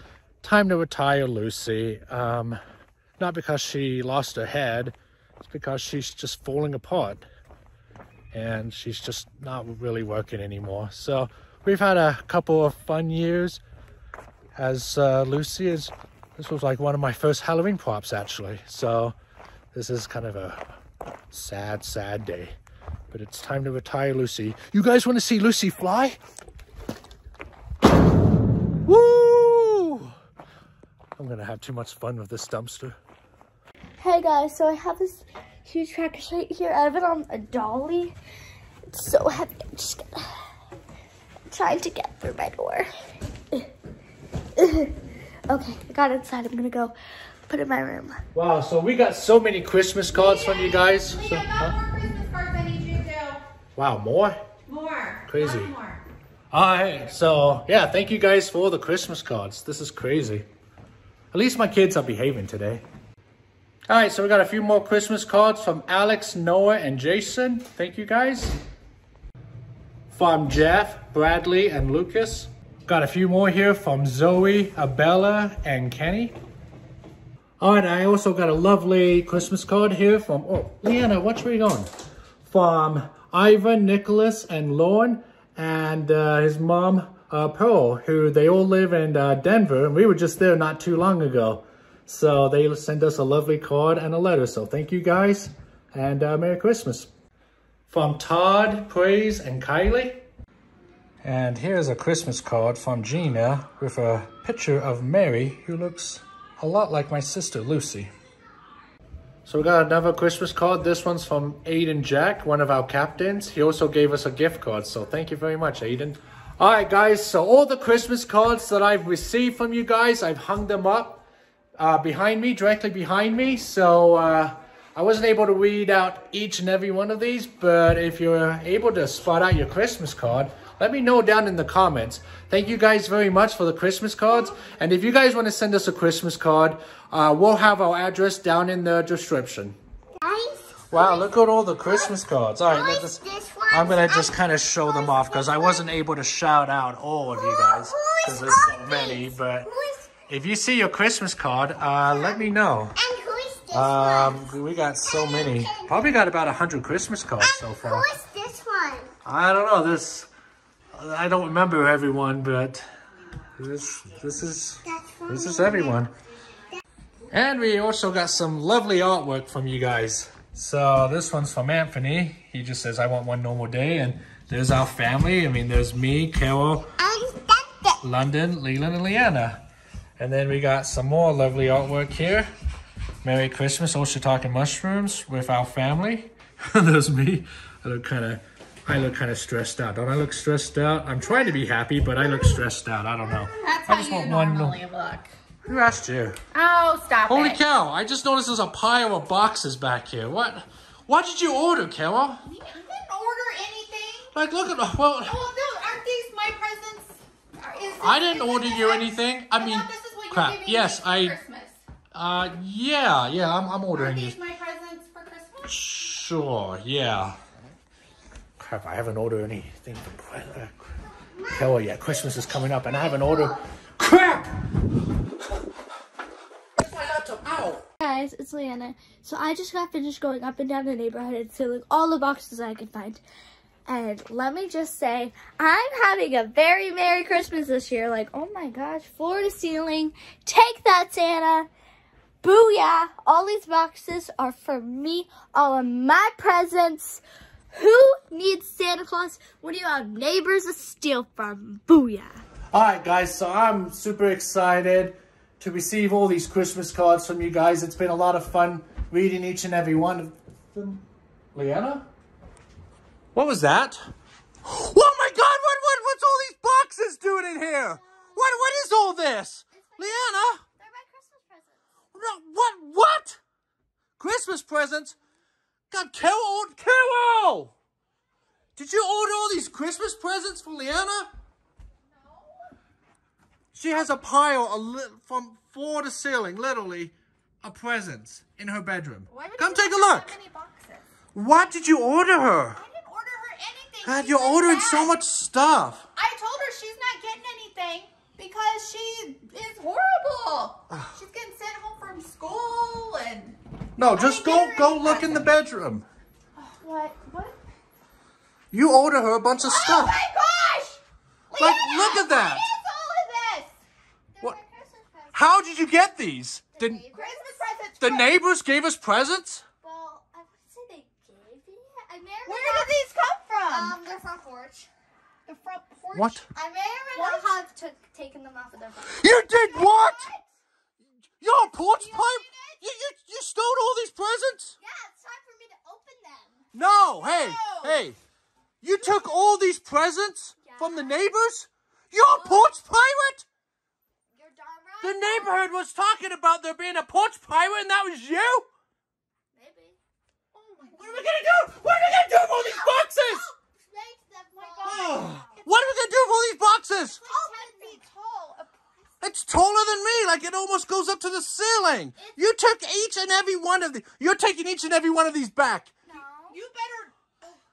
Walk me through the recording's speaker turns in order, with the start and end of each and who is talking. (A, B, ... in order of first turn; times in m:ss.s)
0:00.4-0:02.6 A
0:03.2-0:07.3 A
0:08.3-0:13.6 A
0:14.6-0:19.2 A
0:19.7-0:20.6 A
0:21.3-0:22.6 A
0:23.1-0:26.2 A
0:28.9-0:30.1 A
0:31.2-0:33.0 A
0:34.0-0:38.2 B
0:38.9-0:40.5 B
0:41.5-0:42.9 B
0:44.6-0:44.9 B
0:45.5-0:47.0 B
0:47.5-0:48.2 B
0:48.3-0:51.8 A
0:50.1-0:53.4 C
0:53.8-0:54.4 A
0:54.7-0:56.0 C
0:55.3-0:55.7 A
0:56.5-1:00.5 A
1:01.3-1:02.8 A
1:03.9-1:08.6 A
1:10.1-1:16.4 A
1:17.6-1:21.9 A
1:22.5-1:37.1 A
1:37.9-1:40.2 A
1:41.2-1:48.1 A
1:49.5-2:01.2 A
2:01.8-2:19.8 A
2:20.2-2:21.3 D
2:20.9-2:29.7 A
2:21.8-2:22.1 D
2:22.7-2:25.8 D
2:27.3-2:30.1 D
2:30.3-2:33.0 A
2:32.0-2:34.5 D
2:33.7-2:38.1 A
2:35.1-2:36.0 D
2:37.4-2:39.1 D
2:39.2-2:40.3 A
2:41.0-2:42.8 A
2:43.6-2:46.1 A
2:44.9-2:45.9 D
2:47.3-2:56.9 A
2:57.0-2:58.0 D
2:58.0-2:59.6 A
3:00.2-3:02.5 A
3:03.2-3:14.8 A
3:13.4-3:15.3 C
3:15.6-3:16.4 A
3:16.5-3:17.6 C
3:17.3-3:22.4 A
3:22.4-3:24.3 C
3:24.3-3:25.4 A
3:25.2-3:31.8 C
3:28.0-3:31.4 A
3:32.1-3:34.4 A
3:33.9-3:35.9 C
3:35.7-3:37.4 A
3:38.6-3:40.9 A
3:41.4-3:44.6 A
3:46.8-3:47.9 A
3:48.0-3:53.2 B
3:53.9-4:01.7 B
4:02.4-4:07.2 B
4:07.7-4:12.4 B
4:12.7-4:22.1 A
4:23.4-4:24.0 A
4:24.6-4:30.6 A
4:27.9-4:28.7 B
4:29.7-4:31.8 B
4:32.1-4:33.4 A
4:34.2-4:35.2 A
4:35.9-4:37.7 A
4:38.8-4:41.3 A
4:43.7-4:50.4 A
4:49.3-4:51.1 C
4:51.4-4:52.8 A
4:52.7-4:55.2 C
4:54.0-4:56.0 A
4:56.2-5:05.6 C
5:04.0-5:06.0 A
5:06.6-5:07.6 C
5:08.7-5:10.2 A
5:09.6-5:13.8 C
5:11.6-5:12.7 A
5:14.4-5:15.6 B
5:15.3-5:17.0 A
5:16.7-5:17.6 B
5:17.1-5:18.3 C
5:18.0-5:19.6 A
5:19.8-5:22.9 B
5:22.5-5:24.0 C
5:23.7-5:24.9 B
5:25.5-5:26.4 C
5:26.2-5:26.5 A
5:26.5-5:30.4 B
5:27.2-5:27.6 C
5:29.1-5:30.3 A
5:31.4-5:34.8 A
5:31.7-5:32.8 B
5:34.8-5:36.6 B
5:36.7-5:38.2 A
5:37.4-5:38.0 C
5:38.8-5:43.5 A
5:39.0-5:39.5 B
5:40.6-5:41.2 B
5:42.3-5:42.8 B
5:44.4-5:45.5 B
5:45.0-5:48.7 A
5:49.6-5:50.0 B
5:50.5-5:51.2 C
5:50.9-5:55.6 B
5:51.0-5:53.5 A
5:54.6-5:55.7 C
5:54.8-5:57.2 A
5:57.2-5:58.0 B
5:57.2-5:58.7 C
5:59.2-6:05.9 A
6:06.1-6:06.6 B
6:06.5-6:07.1 C